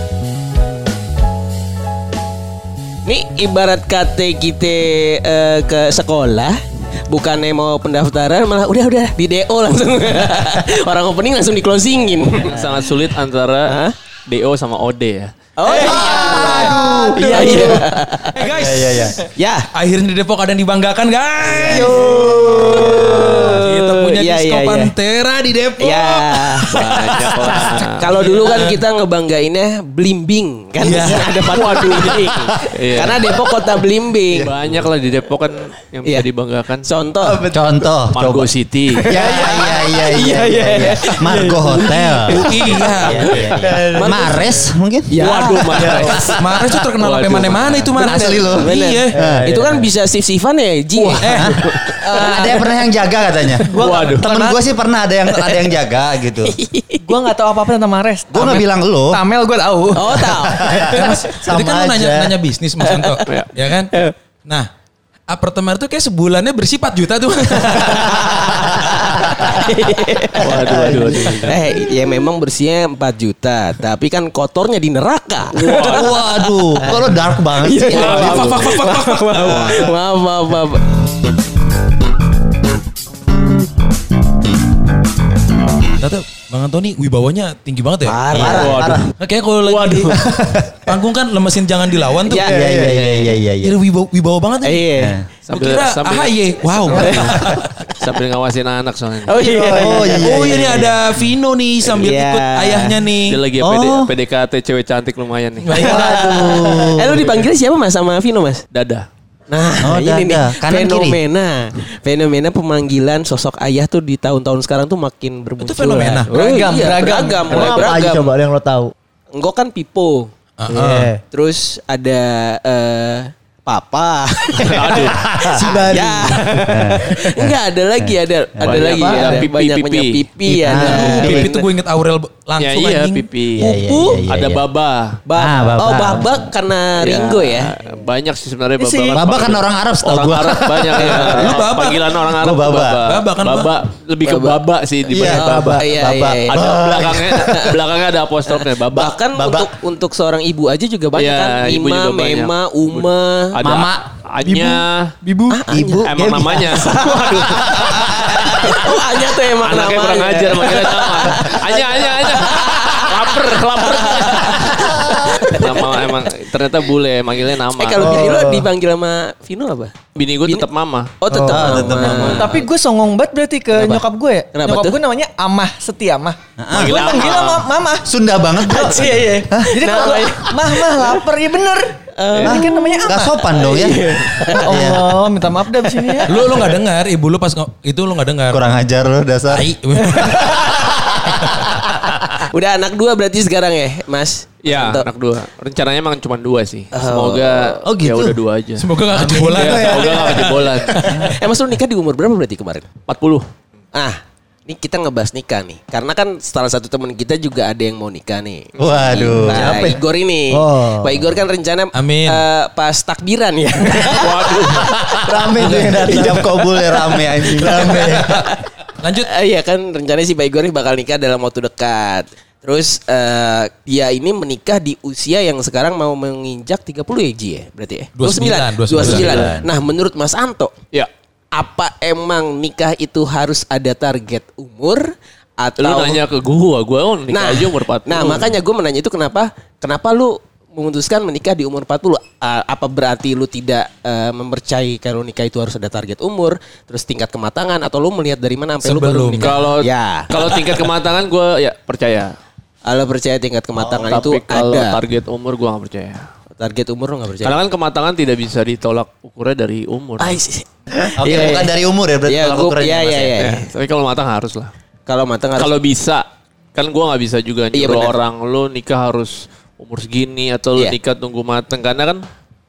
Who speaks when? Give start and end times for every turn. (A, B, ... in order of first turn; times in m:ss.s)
0:03.0-0:06.6 A
0:07.1-0:12.6 A
0:12.4-0:13.8 B
0:13.7-0:13.9 A
0:14.3-0:15.4 B
0:15.6-0:18.4 A
0:15.6-0:16.8 C
0:15.8-0:17.8 D
0:16.4-0:17.6 E
0:18.3-0:19.2 C
0:18.4-0:19.2 E
0:19.2-0:19.7 A
0:19.7-0:22.0 C
0:21.5-0:24.9 A
0:21.6-0:23.6 D
0:22.2-0:23.0 E
0:22.8-0:28.8 C
0:25.8-0:34.5 A
0:26.9-0:28.7 B
0:30.8-0:32.3 C
0:32.7-0:33.2 B
0:34.3-0:36.9 B
0:36.8-0:37.4 A
0:37.2-0:37.9 D
0:37.5-0:38.5 E
0:38.1-0:39.1 B
0:39.1-0:46.0 E
0:39.1-0:42.9 F
0:39.1-0:42.1 A
0:42.3-0:43.6 C
0:42.6-0:44.5 A
0:43.6-0:44.2 D
0:45.1-0:46.4 A
0:45.2-0:46.3 B
0:46.4-0:49.2 C
0:47.0-0:48.0 B
0:48.0-0:49.5 E
0:48.3-0:51.4 A
0:49.5-0:49.8 B
0:51.2-0:52.0 C
0:51.2-0:51.6 E
0:52.0-0:52.6 A
0:52.0-0:52.8 F
0:52.1-0:56.6 E
0:53.6-0:54.6 F
0:53.8-0:54.3 B
0:56.5-0:57.0 A
0:57.0-1:01.2 F
0:58.3-0:59.2 E
0:59.9-1:00.8 A
1:00.4-1:02.3 E
1:00.9-1:03.9 C
1:02.8-1:03.2 A
1:05.3-1:09.6 C
1:07.8-1:16.3 A
1:10.4-1:11.6 B
1:10.7-1:11.5 D
1:15.6-1:16.1 B
1:15.7-1:18.6 E
1:16.8-1:20.9 A
1:17.9-1:19.9 C
1:17.9-1:18.8 B
1:25.9-1:28.5 C
1:28.0-1:28.8 A
1:28.3-1:29.0 E
1:28.3-1:29.1 D
1:28.4-1:29.0 B
1:29.2-1:30.2 C
1:29.6-1:30.1 B
1:30.2-1:30.8 D
1:30.8-1:32.5 C
1:32.2-1:33.4 A
1:32.4-1:33.7 E
1:33.6-1:34.9 C
1:34.6-1:35.2 A
1:35.0-1:35.2 E
1:35.5-1:37.8 C
1:35.5-1:39.4 B
1:36.9-1:37.4 A
1:39.2-1:40.8 A
1:39.4-1:40.1 F
1:39.5-1:40.3 D
1:39.6-1:41.1 E
1:40.2-1:43.4 C
1:41.8-1:43.0 A
1:43.3-1:45.8 B
1:43.6-1:44.1 E
1:45.6-1:46.0 C
1:45.7-1:47.2 E
1:45.7-1:48.6 A
1:45.9-1:47.0 D
1:48.7-1:49.1 B
1:49.5-1:58.3 A
1:49.8-1:51.2 E
1:55.6-1:56.3 C
1:56.3-1:57.8 F
1:57.5-1:58.9 D
1:59.3-2:00.3 A
2:00.6-2:01.1 C
2:00.7-2:01.2 D
2:01.3-2:11.6 A
2:04.6-2:05.2 B
2:05.1-2:06.0 E
2:05.4-2:06.6 D
2:06.7-2:09.4 E
2:08.6-2:10.2 B
2:10.6-2:11.5 E
2:10.7-2:13.3 C
2:12.6-2:15.2 B
2:13.6-2:14.6 E
2:15.3-2:17.7 A
2:15.4-2:16.4 E
2:17.0-2:25.8 B
2:18.8-2:19.3 F
2:19.1-2:21.6 E
2:21.2-2:22.1 C
2:22.2-2:23.0 E
2:23.0-2:23.7 C
2:24.2-2:24.6 A
2:25.1-2:27.5 E
2:25.2-2:26.8 A
2:25.2-2:25.8 D
2:26.5-2:29.1 B
2:27.5-2:27.8 A
2:28.6-2:33.5 A
2:29.3-2:29.7 E
2:31.2-2:35.1 B
2:33.6-2:34.0 E
2:35.2-2:35.8 F
2:35.5-2:36.0 A
2:35.7-2:36.5 D
2:35.7-2:36.1 E
2:35.8-2:37.3 B
2:36.5-2:46.1 A
2:36.9-2:37.7 F
2:37.9-2:38.5 E
2:39.6-2:48.3 B
2:47.7-2:49.9 A
2:48.0-2:48.7 D
2:50.1-2:51.1 B
2:51.2-2:52.5 A
2:51.3-3:06.7 F
2:51.3-2:51.7 D
2:51.5-2:52.6 E
2:52.1-2:52.6 B
2:54.5-2:55.0 A
2:56.6-2:57.2 E
2:56.7-2:57.7 B
2:58.0-3:00.1 E
2:59.7-3:00.9 A
3:02.2-3:04.8 A
3:02.4-3:05.2 E
3:06.2-3:08.6 C
3:08.5-3:09.7 E
3:09.5-3:10.7 C
3:10.2-3:11.1 A
3:12.4-3:15.0 A
3:14.6-3:18.9 B
3:16.9-3:17.8 A
3:17.9-3:18.4 E
3:18.8-3:21.4 C
3:19.1-3:20.5 D
3:19.5-3:21.3 B
3:21.0-3:22.9 A
3:23.1-3:23.4 B
3:23.9-3:38.6 A
3:28.8-3:30.0 E
3:29.1-3:30.0 D
3:30.5-3:31.2 D
3:31.9-3:32.4 C
3:34.1-3:34.9 B
3:35.2-3:36.7 D
3:35.6-3:38.2 E
3:37.4-3:38.3 D
3:37.7-3:39.3 C
3:39.3-3:50.7 A
3:48.2-3:49.5 C
3:48.9-3:49.7 E
3:51.5-3:55.0 A
3:55.6-3:56.2 A
3:55.8-3:58.5 B
3:57.3-4:10.3 A
4:08.8-4:09.6 C
4:09.4-4:12.3 B
4:12.8-4:15.0 A
4:14.1-4:16.2 B
4:16.6-4:17.6 A
4:17.4-4:20.4 B
4:20.2-4:21.7 A
4:21.2-4:23.4 E
4:22.2-4:23.7 A
4:23.4-4:24.7 B
4:25.1-4:25.7 A
4:25.6-4:32.2 B
4:27.7-4:28.1 A